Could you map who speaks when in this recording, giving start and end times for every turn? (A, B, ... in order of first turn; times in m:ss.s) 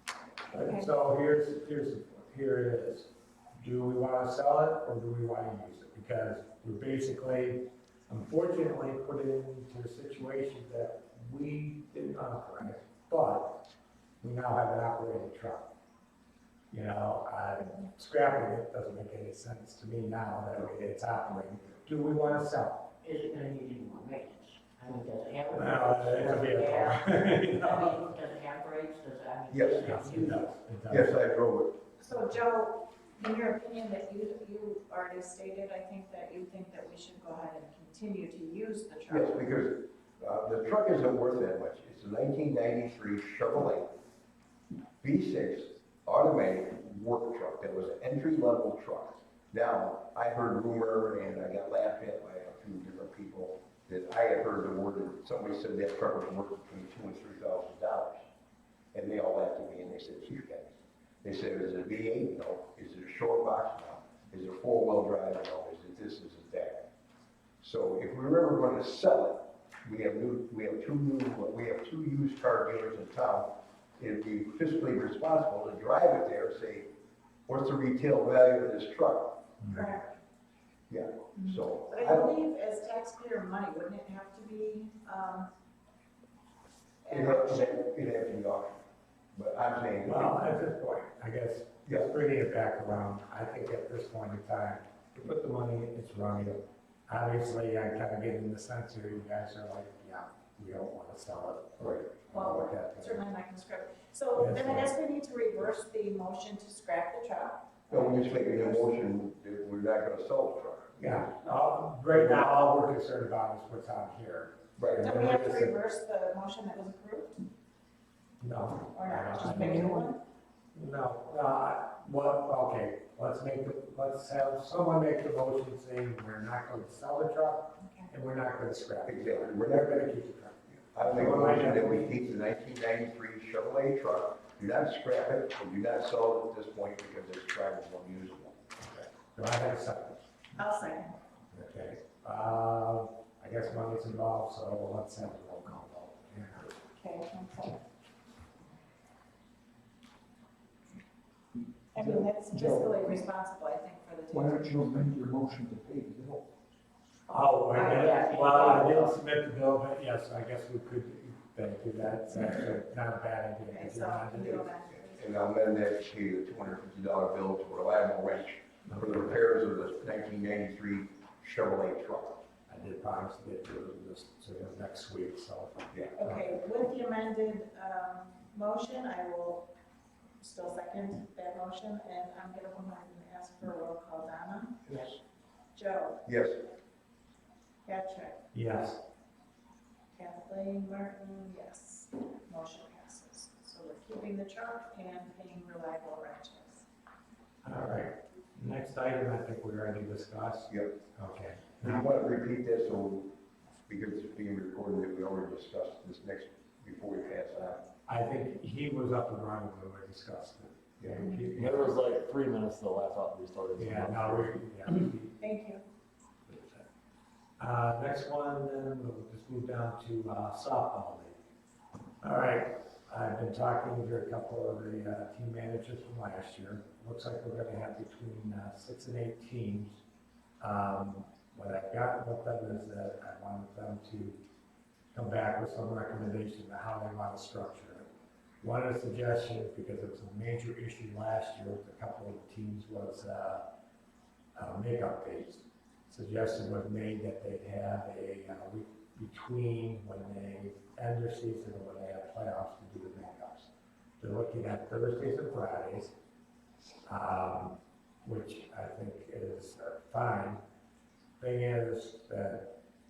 0:00.5-0:13.6 A
0:00.5-0:00.9 B
0:14.2-0:15.7 A
0:16.7-0:22.9 A
0:23.0-0:30.5 C
0:25.5-0:28.0 A
0:29.5-0:29.9 D
0:29.8-0:31.2 A
0:30.9-0:31.8 D
0:32.0-0:39.5 B
0:39.1-0:43.9 D
0:45.0-0:58.2 D
0:58.9-1:06.9 D
1:07.6-1:16.9 D
1:17.5-1:19.7 D
1:19.7-1:20.1 B
1:20.9-1:22.3 D
1:21.4-1:25.5 B
1:27.0-1:27.7 B
1:27.1-1:28.8 D
1:29.3-1:30.4 D
1:30.0-1:43.2 A
1:41.8-1:42.0 D
1:42.3-1:48.9 B
1:44.4-1:44.9 A
1:47.9-1:51.3 D
1:51.0-1:55.7 A
1:52.1-1:52.6 D
1:54.8-1:55.1 D
1:55.0-1:57.4 B
1:58.4-2:00.0 A
1:58.9-2:00.2 B
1:59.6-2:00.0 E
2:00.7-2:12.2 A
2:07.8-2:08.1 B
2:09.0-2:10.0 D
2:10.7-2:18.6 D
2:18.9-2:20.2 A
2:20.6-2:21.2 B
2:21.5-2:26.8 A
2:27.0-2:27.8 B
2:31.9-2:34.8 B
2:32.0-2:33.2 E
2:34.3-2:36.4 E
2:37.3-2:44.7 A
2:37.7-2:38.2 B
2:37.7-2:39.2 C
2:43.7-2:45.4 B
2:45.1-2:52.4 D
2:48.8-2:49.4 A
2:52.7-2:56.5 A
2:56.2-2:59.7 B
3:00.4-3:04.9 B
3:05.7-3:06.2 B
3:06.2-3:06.6 D
3:07.8-3:08.4 B
3:08.5-3:09.0 A
3:10.1-3:16.8 B
3:17.6-3:22.0 A
3:20.7-3:21.0 D
3:21.8-3:23.3 D
3:23.8-3:27.8 D
3:28.1-3:31.9 A
3:31.0-3:31.3 D
3:31.5-3:35.0 F
3:33.8-3:35.4 A
3:35.4-3:35.8 B
3:36.5-3:36.8 A
3:37.6-3:41.4 A
3:42.2-3:50.0 A
3:50.6-3:54.4 A
3:55.1-3:58.1 A
3:58.6-4:03.6 A
4:04.6-4:16.1 A
4:17.0-4:20.6 A
4:21.4-4:22.7 A